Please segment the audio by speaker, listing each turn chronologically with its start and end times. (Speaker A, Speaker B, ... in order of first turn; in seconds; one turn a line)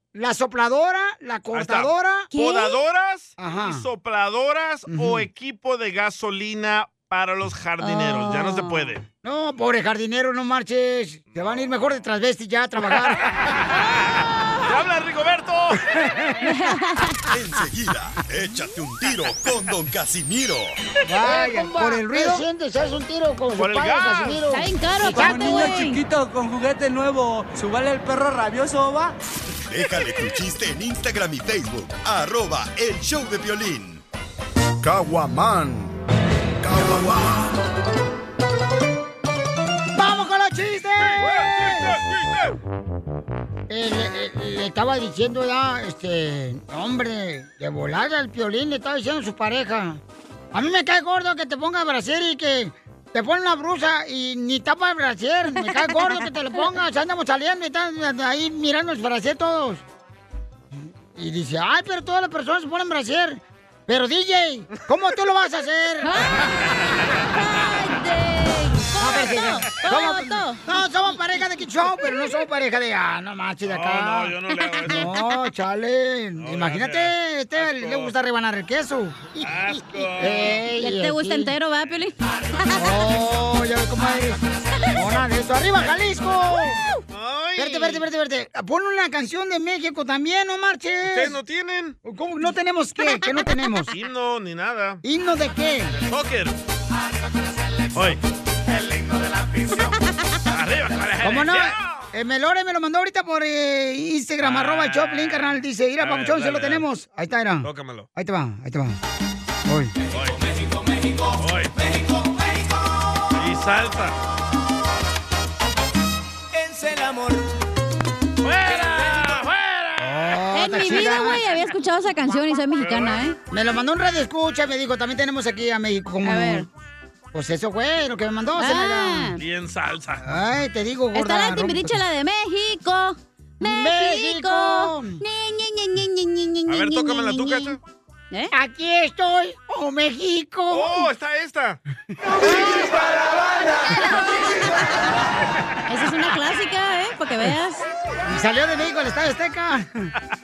Speaker A: 0.1-2.3
Speaker B: 1.5-9.0
Speaker C: 2.3-2.8
Speaker A: 3.4-3.9
Speaker A: 4.9-5.3
Speaker C: 7.8-8.9
Speaker A: 9.2-13.2
Speaker B: 12.9-16.0
Speaker A: 15.9-16.3
Speaker C: 16.4-17.2
Speaker D: 17.3-20.7
Speaker A: 21.1-25.6
Speaker C: 21.2-22.4
Speaker B: 23.5-24.4
Speaker C: 24.5-26.0
Speaker E: 25.0-29.2
Speaker D: 29.7-34.0
Speaker F: 34.8-36.0
Speaker F: 36.6-37.5
Speaker A: 40.0-42.0
Speaker B: 41.0-42.6
Speaker A: 43.7-50.0
Speaker A: 50.5-59.8
Speaker A: 61.1-66.4
Speaker C: 66.0-70.6
Speaker A: 69.0-74.3
Speaker B: 73.7-75.1
Speaker A: 74.9-79.2
Speaker B: 76.4-78.1
Speaker B: 79.3-80.6
Speaker A: 80.2-81.5
Speaker C: 80.8-83.0
Speaker A: 82.8-84.4
Speaker A: 84.9-86.8
Speaker B: 87.1-88.0
Speaker A: 87.6-91.4
Speaker B: 91.1-92.0
Speaker A: 92.0-93.9
Speaker B: 93.9-95.0
Speaker A: 95.0-95.9
Speaker B: 95.9-96.6
Speaker B: 98.0-98.2
Speaker B: 100.5-102.1
Speaker A: 101.2-109.0
Speaker B: 104.4-106.9
Speaker B: 107.6-108.1
Speaker A: 109.7-109.9
Speaker B: 110.1-110.4
Speaker B: 111.4-111.8
Speaker B: 113.3-114.2
Speaker E: 116.5-117.5
Speaker B: 118.4-120.4
Speaker E: 118.8-119.3
Speaker A: 120.0-121.4
Speaker C: 120.5-123.4
Speaker B: 122.8-123.2
Speaker A: 123.5-126.7
Speaker C: 126.2-126.7
Speaker A: 127.3-129.4
Speaker C: 128.6-129.4
Speaker B: 129.4-130.4
Speaker A: 130.2-132.0
Speaker C: 131.1-137.8
Speaker A: 133.6-135.2
Speaker B: 136.7-137.8
Speaker A: 138.5-141.0
Speaker B: 140.7-141.8
Speaker C: 143.9-145.0
Speaker C: 145.9-147.8
Speaker A: 148.3-150.1